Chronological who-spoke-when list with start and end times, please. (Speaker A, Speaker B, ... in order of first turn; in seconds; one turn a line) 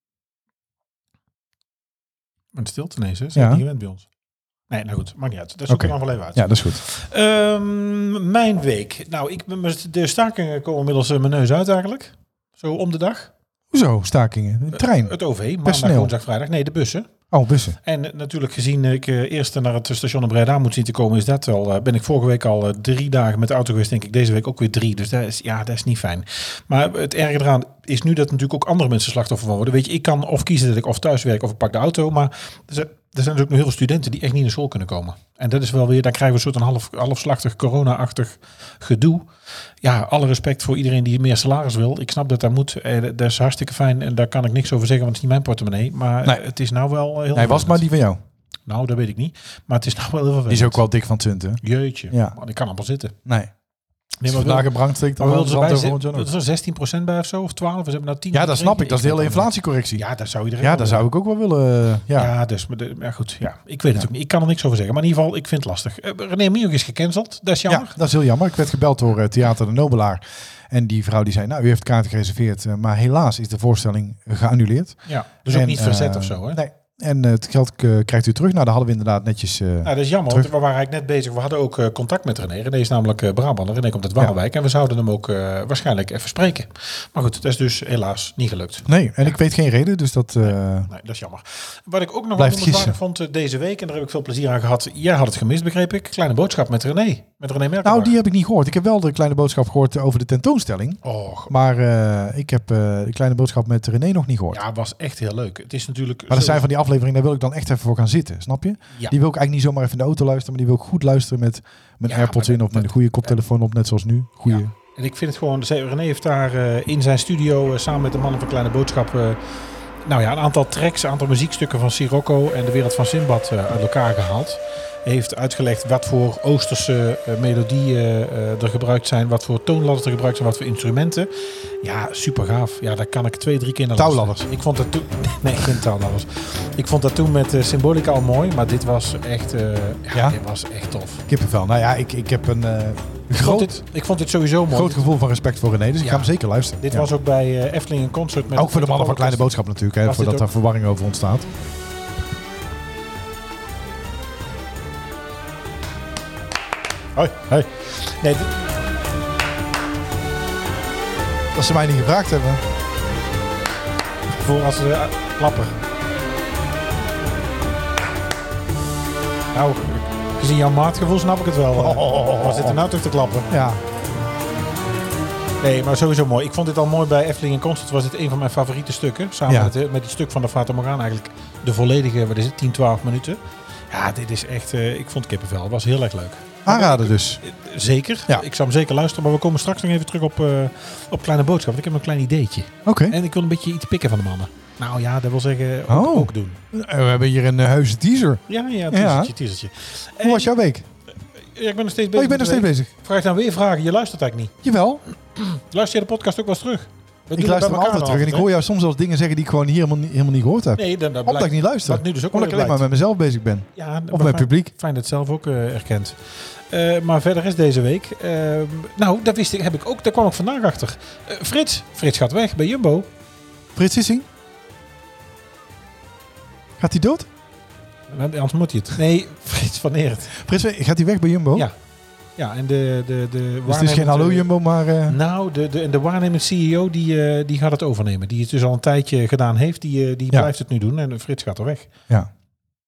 Speaker A: 2.5-4.1
Speaker B: 3.4-3.6
Speaker A: 4.7-13.3
Speaker B: 5.7-6.8
Speaker B: 13.7-16.1
Speaker A: 14.7-17.1
Speaker B: 17.3-17.8
Speaker A: 17.8-39.3
Speaker A: 39.8-47.9
Speaker B: 47.3-48.2
Speaker A: 48.7-50.8
Speaker B: 50.5-52.4
Speaker A: 51.6-53.1
Speaker B: 53.2-53.5
Speaker A: 54.2-61.1
Speaker B: 54.3-56.3
Speaker B: 58.3-60.0
Speaker B: 60.6-62.3
Speaker A: 62.1-68.0
Speaker B: 67.7-80.5
Speaker A: 75.1-76.6
Speaker A: 79.8-88.9
Speaker B: 88.8-90.9
Speaker A: 90.9-98.2
Speaker B: 92.4-93.0
Speaker B: 97.8-104.6
Speaker A: 101.0-101.5
Speaker A: 104.5-106.7
Speaker B: 106.3-114.7
Speaker A: 112.1-113.3
Speaker A: 114.5-119.4
Speaker A: 120.0-131.3
Speaker A: 131.8-141.2
Speaker B: 134.0-134.5
Speaker B: 141.3-143.8
Speaker A: 143.3-145.1
Speaker B: 144.7-147.1
Speaker A: 146.0-150.5
Speaker B: 148.6-151.5
Speaker A: 157.2-158.5
Speaker B: 161.5-162.6
Speaker A: 164.3-165.8
Speaker A: 169.5-173.5
Speaker B: 171.8-172.8
Speaker B: 173.5-173.8
Speaker A: 175.6-196.6
Speaker B: 186.7-187.4
Speaker B: 192.8-193.2
Speaker B: 195.9-199.3
Speaker A: 198.5-200.5
Speaker B: 200.2-200.9
Speaker A: 201.4-204.6
Speaker B: 202.1-202.9
Speaker B: 204.6-205.0
Speaker A: 205.3-208.5
Speaker B: 207.4-214.7
Speaker A: 210.8-212.9
Speaker A: 213.8-223.1
Speaker B: 223.8-224.3
Speaker B: 226.8-227.3
Speaker A: 228.1-230.4
Speaker B: 230.4-231.7
Speaker A: 232.4-234.5
Speaker B: 233.7-235.2
Speaker A: 235.1-241.9